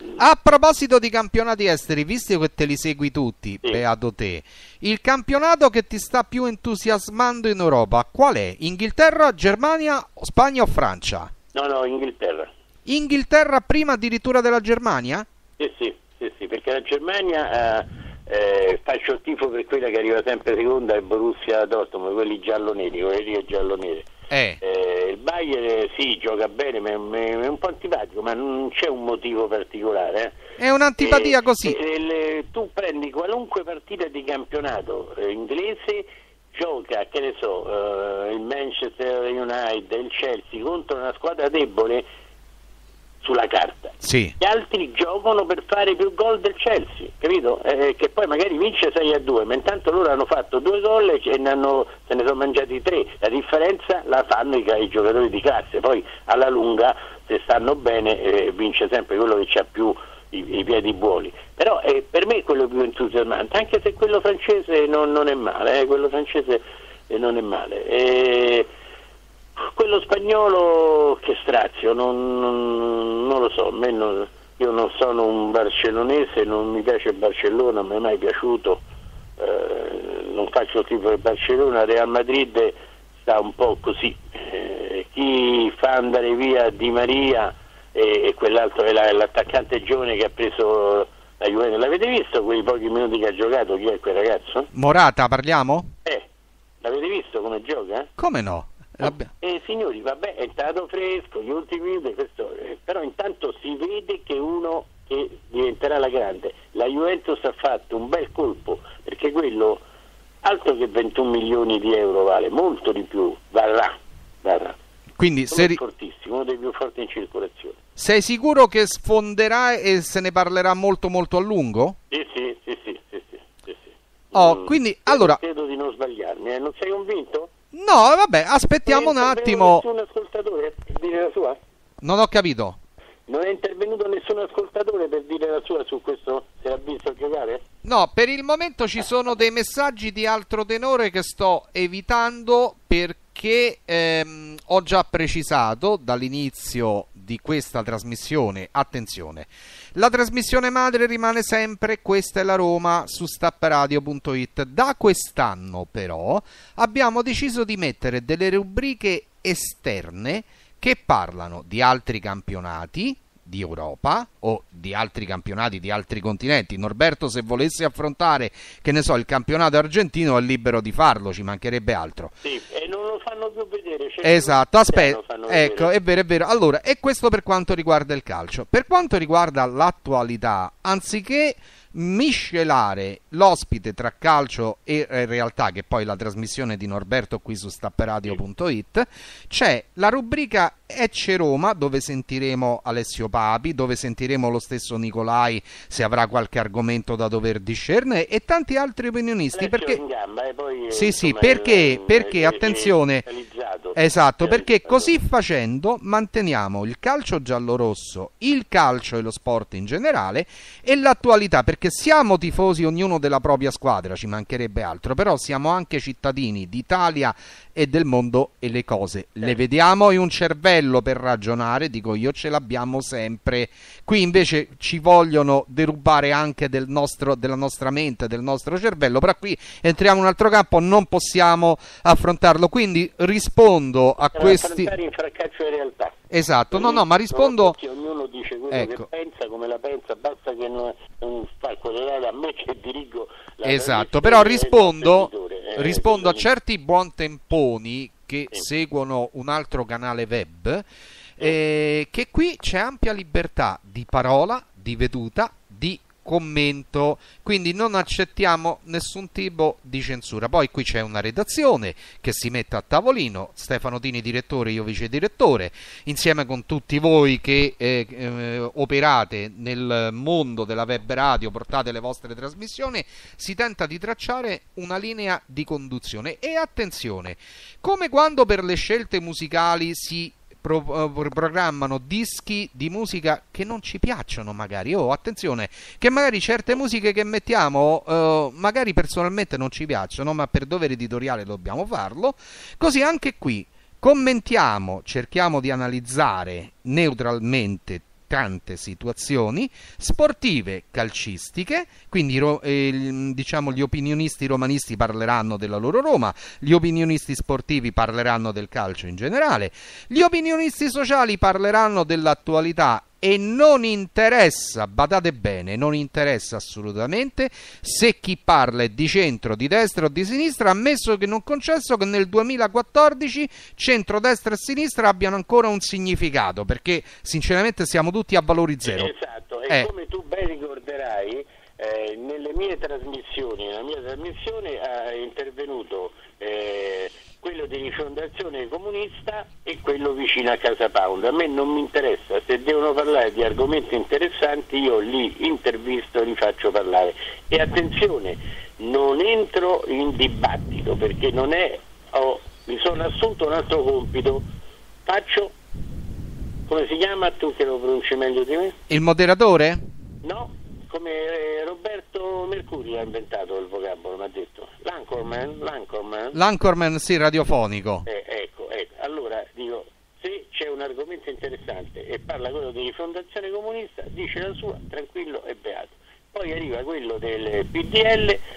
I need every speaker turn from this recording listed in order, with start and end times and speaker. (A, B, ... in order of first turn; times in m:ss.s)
0:00.2-0:11.3 A
0:11.5-0:12.5 B
0:12.9-0:15.3 A
0:15.6-0:24.1 B
0:24.3-0:24.6 A
0:24.6-0:30.4 B
0:30.6-0:31.8 A
0:31.0-0:42.0 B
0:43.2-1:08.7 B
0:44.0-0:44.3 A
1:09.6-1:18.8 B
1:19.4-1:34.7 B
1:34.7-1:35.9 A
1:36.8-1:38.1 B
1:38.2-1:39.3 A
1:39.0-1:49.8 B
1:50.4-1:54.8 B
1:55.2-1:55.8 A
1:55.5-1:57.8 B
1:58.0-2:02.0 A
2:02.1-2:07.5 B
2:04.3-2:05.4 A
2:07.7-2:09.8 A
2:08.9-2:11.6 B
2:12.0-2:12.8 A
2:13.3-2:17.6 B
2:17.8-2:52.4 A
2:52.4-2:55.9 B
2:54.2-3:20.0 A
3:19.5-3:25.2 B
3:20.9-3:23.2 A
3:24.0-3:54.9 A
3:54.3-3:56.2 B
3:56.3-3:57.8 A
3:56.7-4:06.5 B
3:58.7-3:59.1 A
4:03.6-4:10.8 A
4:11.4-5:29.1 A
5:28.8-5:54.4 B
5:55.1-5:55.6 B
5:56.7-5:58.8 B
5:58.9-5:59.8 A
6:00.2-6:06.4 B
6:06.3-6:08.1 A
6:08.1-6:18.4 B